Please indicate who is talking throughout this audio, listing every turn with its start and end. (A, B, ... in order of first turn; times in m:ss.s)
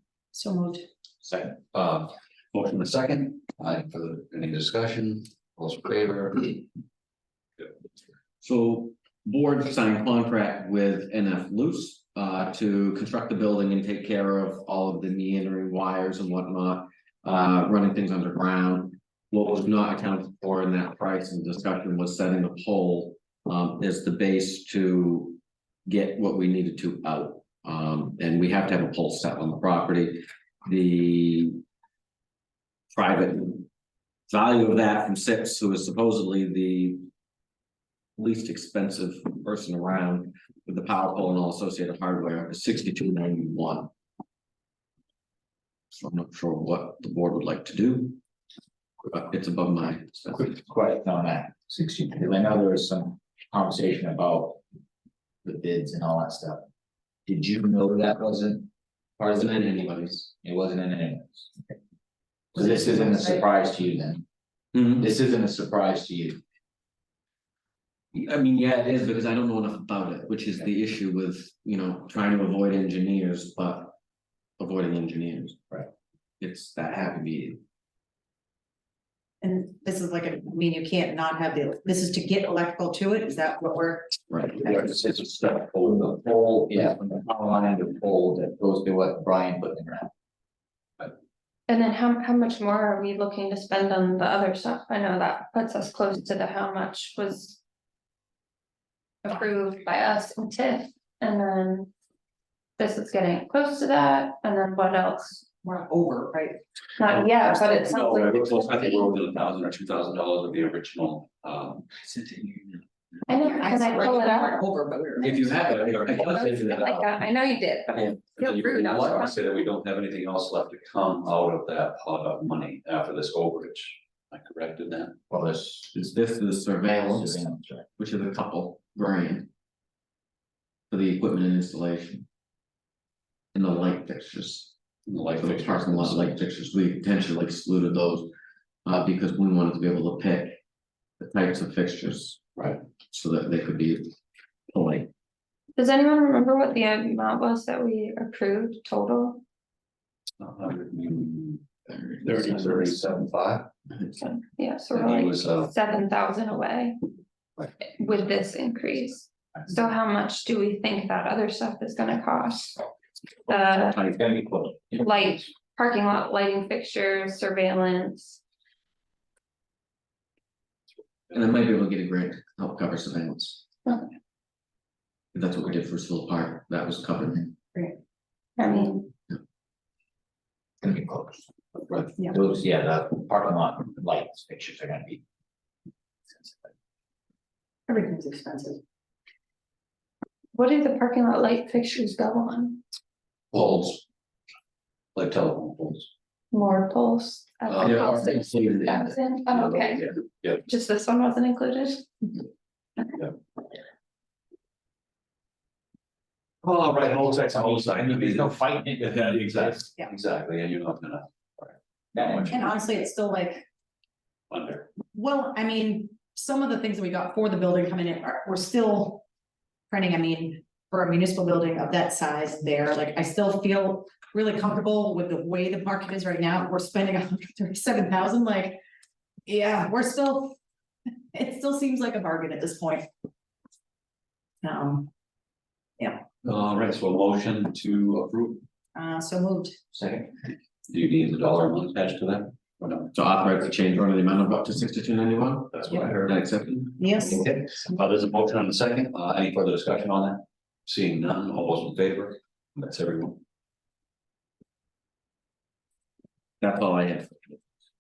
0:00.3-0:00.8 A
0:01.2-0:01.6 B
0:01.7-0:06.6 C
0:08.4-0:31.6 D
0:32.9-0:33.7 D
0:34.3-0:37.1 D
0:38.2-0:43.9 D
0:45.9-0:48.2 D
0:49.1-0:50.6 D
0:50.3-0:54.6 B
0:55.4-0:56.7 B
0:57.3-0:58.7 B
0:59.2-1:00.3 D
1:00.4-1:01.5 B
1:02.5-1:04.2 B
1:02.6-1:03.3 D
1:04.7-1:05.0 D
1:05.0-1:06.4 B
1:08.1-1:14.0 D
1:14.6-1:15.8 D
1:16.4-1:17.6 D
1:19.4-1:24.8 A
1:24.3-1:24.6 D
1:24.6-1:26.9 C
1:26.7-1:30.1 B
1:31.7-1:37.6 E
1:39.2-1:41.9 E
1:42.8-1:45.4 E
1:45.6-1:48.0 A
1:47.0-1:49.1 E
1:47.8-1:52.0 C
1:53.3-1:54.6 E
1:53.4-1:55.6 A
1:55.2-1:57.1 D
1:55.6-1:56.7 C
1:56.0-1:59.4 E
1:58.0-2:05.2 C
2:05.3-2:06.0 B
2:05.9-2:09.5 D
2:06.8-2:07.9 B
2:10.9-2:12.3 D
2:13.5-2:14.7 D
2:15.1-2:16.4 C
2:15.3-2:18.3 D
2:18.8-2:20.6 D
2:21.2-2:22.4 D
2:23.1-2:24.1 D
2:24.7-2:25.1 D
2:25.8-2:29.4 E
2:30.4-2:31.6 C
2:31.9-2:32.9 D
2:32.2-2:33.7 C
2:33.9-2:34.3 D
2:34.2-2:37.0 E
2:34.9-2:35.7 C
2:37.8-2:42.8 E
2:43.5-2:44.0 E
2:43.9-2:44.2 D
2:44.0-2:45.0 B
2:44.9-2:48.4 E
2:51.3-2:53.6 D
2:55.3-2:57.5 D
2:58.6-2:59.1 E
3:00.8-3:01.5 B
3:02.2-3:05.2 B
3:06.3-3:06.7 B
3:07.9-3:08.8 A
3:10.5-3:12.8 E
3:13.5-3:13.9 C
3:15.1-3:16.1 C
3:16.5-3:20.1 E
3:17.7-3:18.9 D
3:17.8-3:19.2 B
3:19.5-3:20.6 C
3:20.6-3:22.2 E
3:26.6-3:31.8 C
3:27.2-3:29.8 B
3:32.1-3:32.7 B
3:32.5-3:33.7 A
3:34.5-3:34.9 C
3:35.1-3:39.2 A
3:39.9-3:48.8 A
3:49.4-3:50.6 A
3:51.3-3:53.1 A
3:54.6-3:55.1 A
3:56.4-3:58.6 C
3:58.9-3:59.8 A
4:00.9-4:03.1 C
4:03.1-4:06.8 D
4:05.7-4:13.4 C
4:07.0-4:07.6 A
4:16.6-4:17.6 D